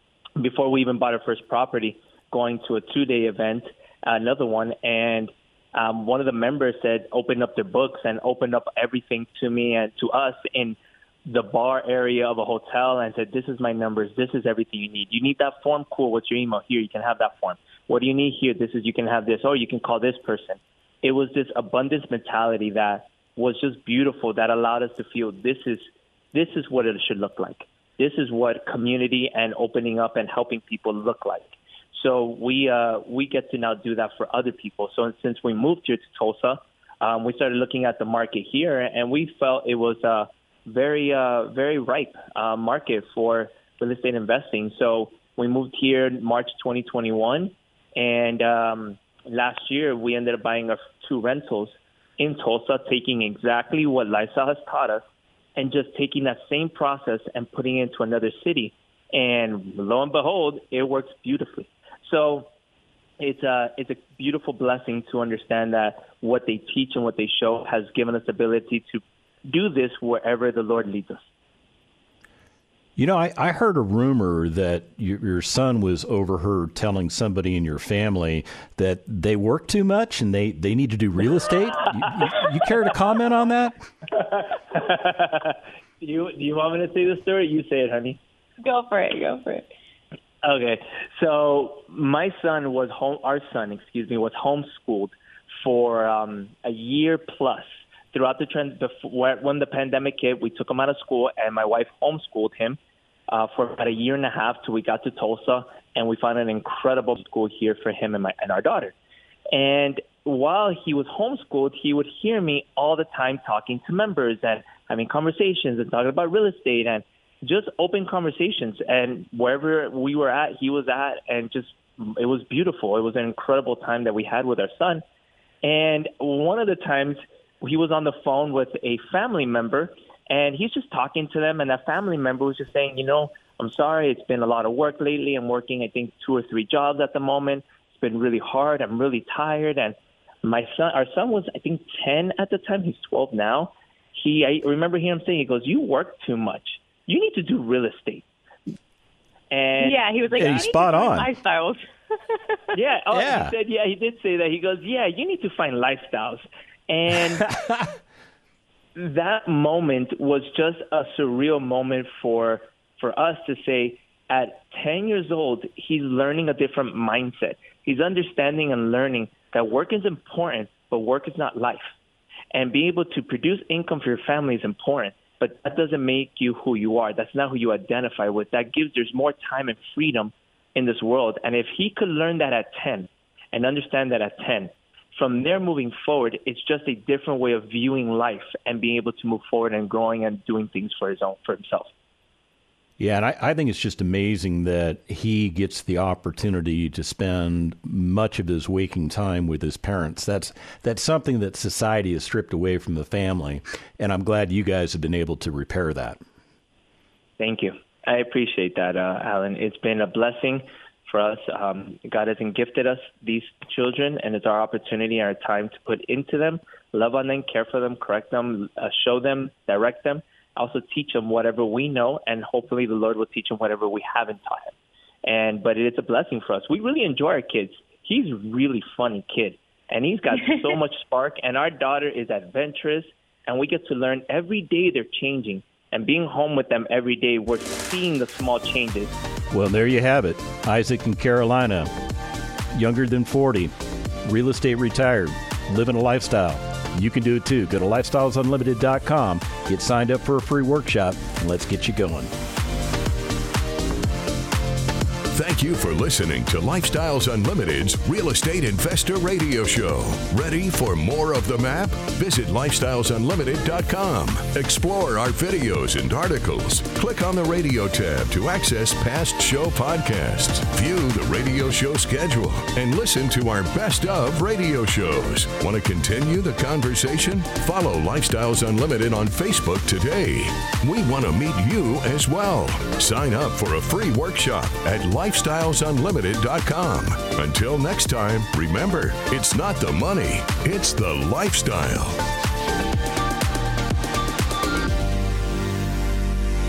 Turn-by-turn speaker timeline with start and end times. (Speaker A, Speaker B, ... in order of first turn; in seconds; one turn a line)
Speaker A: 0.4-55.0
Speaker A: 55.6-62.5
Speaker A: 63.2-71.2
Speaker B: 73.0-83.8
Speaker A: 84.1-88.2
Speaker C: 88.6-89.7
Speaker A: 90.4-108.9
Speaker A: 109.5-125.0
Speaker A: 125.6-148.2
Speaker A: 149.5-150.0
Speaker C: 149.8-151.8
Speaker B: 150.4-151.3
Speaker A: 152.7-157.6
Speaker B: 153.1-153.5
Speaker B: 157.6-157.9
Speaker A: 159.0-171.9
Speaker A: 172.5-191.9
Speaker B: 193.0-206.2
Speaker A: 207.4-239.2
Speaker B: 239.5-241.9
Speaker B: 242.7-243.7
Speaker B: 244.2-252.3
Speaker D: 255.3-292.2